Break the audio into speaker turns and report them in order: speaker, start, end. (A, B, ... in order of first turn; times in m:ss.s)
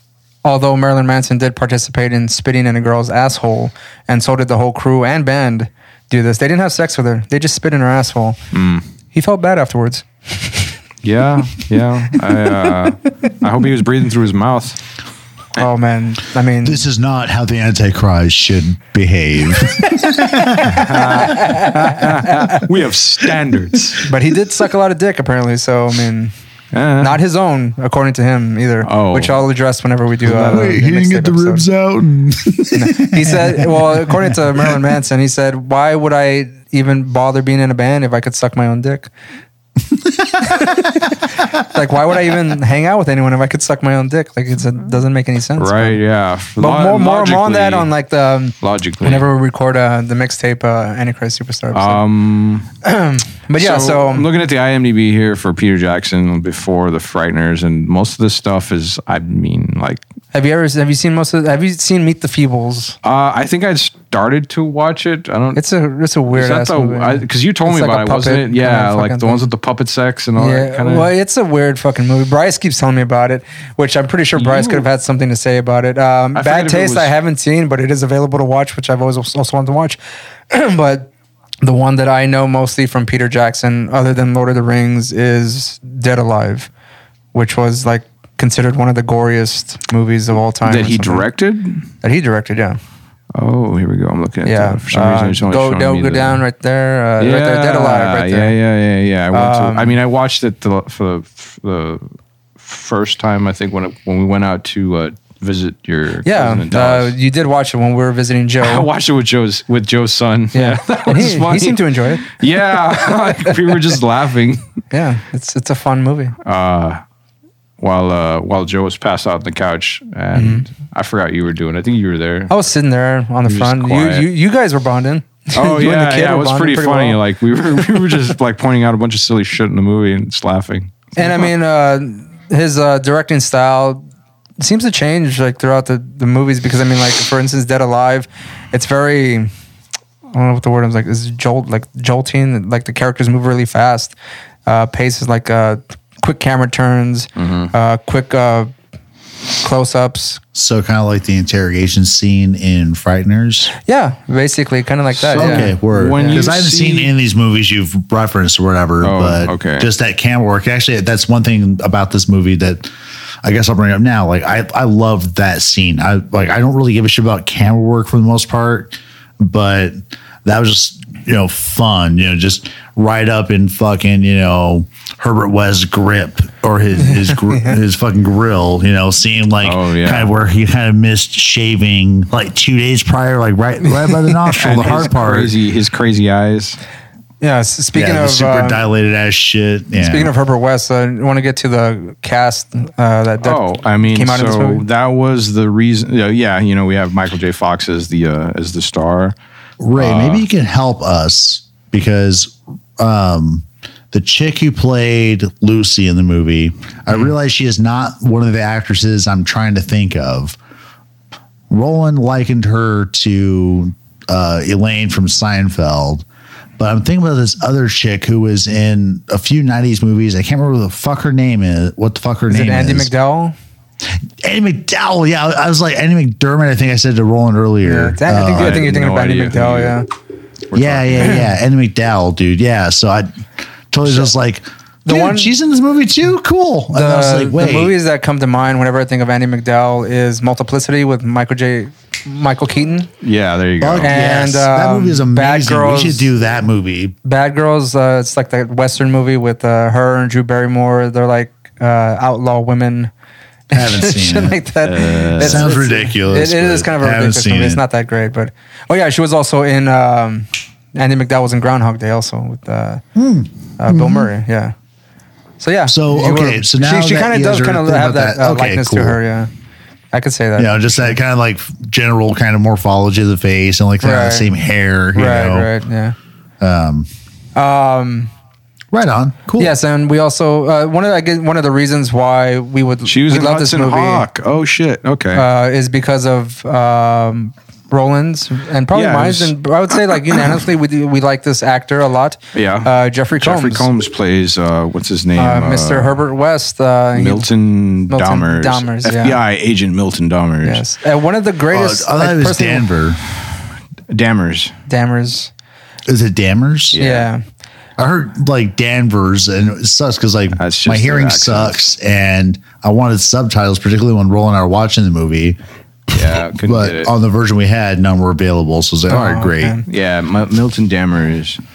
0:00.4-0:08.4 A
0:08.5-0:08.8 B
0:09.1-0:10.7 A
0:11.0-0:14.8 B
0:15.6-0:16.8 A
0:16.6-0:21.0 C
0:20.6-0:24.0 B
0:24.0-0:26.3 A
0:26.7-0:27.2 B
0:27.0-0:31.7 A
0:28.8-0:29.3 B
0:30.3-0:30.8 B
0:30.3-0:34.8 C
0:32.7-0:39.1 A
0:40.5-0:40.9 A
0:41.6-0:46.0 A
0:45.6-0:47.9 B
0:46.6-0:52.0 A
0:48.6-0:49.3 B
0:51.7-0:52.7 B
0:52.8-0:54.3 A
0:53.6-1:00.0 B
1:00.3-1:03.0 A
1:03.0-1:05.6 B
1:05.6-1:09.5 A
1:06.3-1:11.1 B
1:10.4-1:21.1 A
1:14.4-1:14.9 B
1:16.4-1:17.1 B
1:21.6-1:26.7 A
1:27.3-1:31.3 A
1:30.6-1:31.8 B
1:32.0-1:32.8 A
1:33.4-1:36.4 B
1:34.4-1:38.6 A
1:37.2-1:47.2 B
1:39.3-1:40.0 A
1:46.2-1:48.9 A
1:48.6-1:54.6 B
1:50.5-1:52.3 A
1:54.9-1:56.4 A
1:56.4-1:57.0 B
1:57.8-2:02.5 B
2:00.3-2:00.7 A
2:02.5-2:07.2 A
2:03.4-2:04.3 B
2:05.5-2:11.5 B
2:11.2-2:14.0 A
2:14.6-2:19.5 A
2:20.3-2:24.1 A
2:24.7-2:28.7 A
2:27.4-2:27.7 B
2:29.6-2:30.4 A
2:30.6-2:33.7 C
2:33.8-2:36.4 A
2:35.2-2:37.1 B
2:35.3-2:42.9 C
2:39.0-2:39.9 B
2:43.4-3:05.6 C
2:57.0-2:57.8 A
2:59.6-3:00.3 B
3:03.8-3:04.2 A
3:04.6-3:06.8 B
3:07.4-3:08.8 A
3:07.9-3:10.3 C
3:10.0-3:14.8 A
3:13.4-3:19.4 B
3:19.8-3:30.6 C
3:20.0-3:20.5 B
3:31.7-3:36.2 C
3:36.8-3:43.1 C
3:42.5-3:43.6 A
3:44.4-3:48.8 C
3:47.8-3:50.0 A
3:48.4-3:50.0 B
3:50.7-3:51.4 B
3:50.7-3:58.0 C
3:55.0-3:55.5 A
3:56.9-4:03.1 A
4:03.2-4:04.1 B
4:03.8-4:07.2 C
4:04.0-4:06.3 A
4:07.2-4:13.1 A
4:13.7-4:14.6 C
4:13.7-4:23.0 A
4:14.8-4:15.7 B
4:15.4-4:17.8 C
4:23.1-4:24.3 C
4:23.8-4:24.7 A
4:25.6-4:29.5 A
4:25.9-4:29.2 C
4:30.1-4:31.2 A
4:30.6-4:35.7 C
4:34.0-4:34.5 A
4:35.1-4:36.2 A
4:36.6-4:37.1 C
4:37.5-4:38.3 A
4:38.9-4:39.8 C
4:39.6-4:44.2 A
4:43.0-4:45.4 B
4:45.3-4:53.9 A
4:48.9-4:49.5 B
4:52.5-4:56.2 B
4:55.4-4:57.5 A
4:57.1-5:00.8 B
4:58.1-4:59.4 A
5:00.6-5:02.9 A
5:01.7-5:03.2 C
5:04.1-5:04.7 B
5:04.9-5:05.5 A
5:06.1-5:07.0 C
5:06.9-5:07.3 B
5:07.0-5:07.4 A
5:08.0-5:15.6 C
5:10.6-5:11.8 B
5:16.1-5:19.8 C
5:16.1-5:17.1 B
5:19.1-5:19.8 A
5:19.9-5:21.6 B